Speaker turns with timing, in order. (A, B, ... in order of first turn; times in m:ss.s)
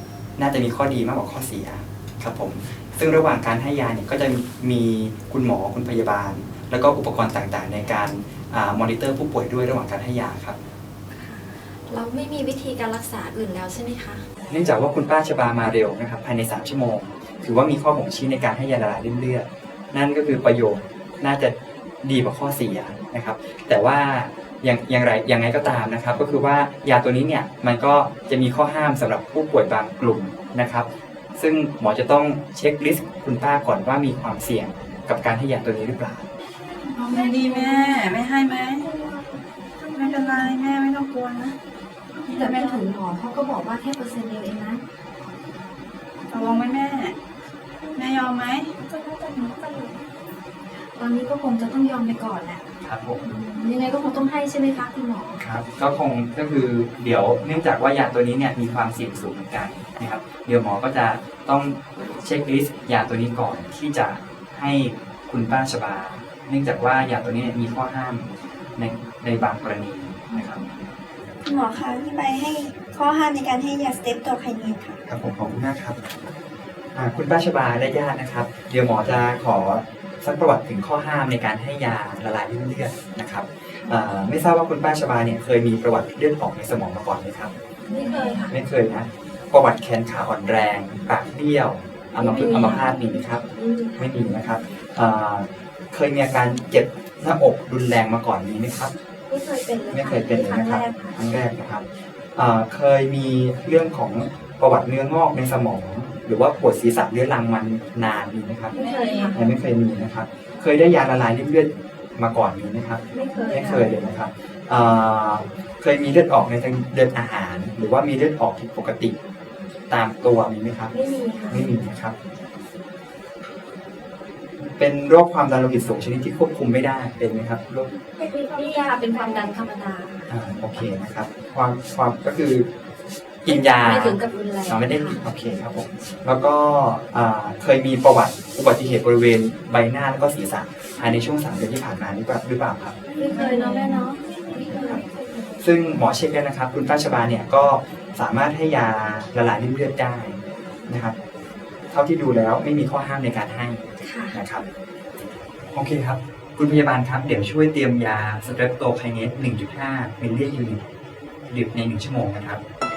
0:00.4-0:10.6 A
0:11.1-0:14.2 B
0:14.5-0:36.3 A
0:36.6-0:40.5 C
0:37.0-0:38.9 D
0:39.9-0:41.6 D
0:42.2-0:44.8 B
0:42.3-0:42.8 D
0:42.3-0:42.8 C
0:46.3-0:47.1 D
0:46.3-0:46.8 C
0:47.8-0:50.0 C
0:48.0-0:48.7 D
0:50.9-0:52.6 B
0:52.8-0:53.3 A
0:53.2-0:55.4 B
0:55.4-1:10.8 A
1:11.4-1:15.0 E
1:11.5-1:14.8 D
1:15.0-1:16.2 A
1:16.9-1:27.5 A
1:27.9-1:28.6 B
1:28.4-1:33.4 A
1:32.2-1:34.2 B
1:34.0-1:38.9 A
1:39.3-1:41.2 B
1:39.9-1:48.8 A
1:48.7-1:49.4 B
1:48.8-1:49.3 D
1:49.3-1:59.2 A
1:53.1-1:53.9 B
1:59.9-2:00.9 A
2:00.9-2:01.7 B
2:01.5-2:02.2 A
2:04.6-2:07.9 A
2:08.2-2:10.8 B
2:08.5-2:09.3 E
2:10.3-2:12.7 A
2:13.4-2:23.0 A
2:13.5-2:15.2 B
2:23.2-2:25.0 B
2:23.5-2:23.8 D
2:24.4-2:25.2 C
2:25.6-2:31.2 A
2:31.9-2:34.7 A
2:34.0-2:34.4 B
2:35.7-2:40.8 A
2:41.4-2:42.6 A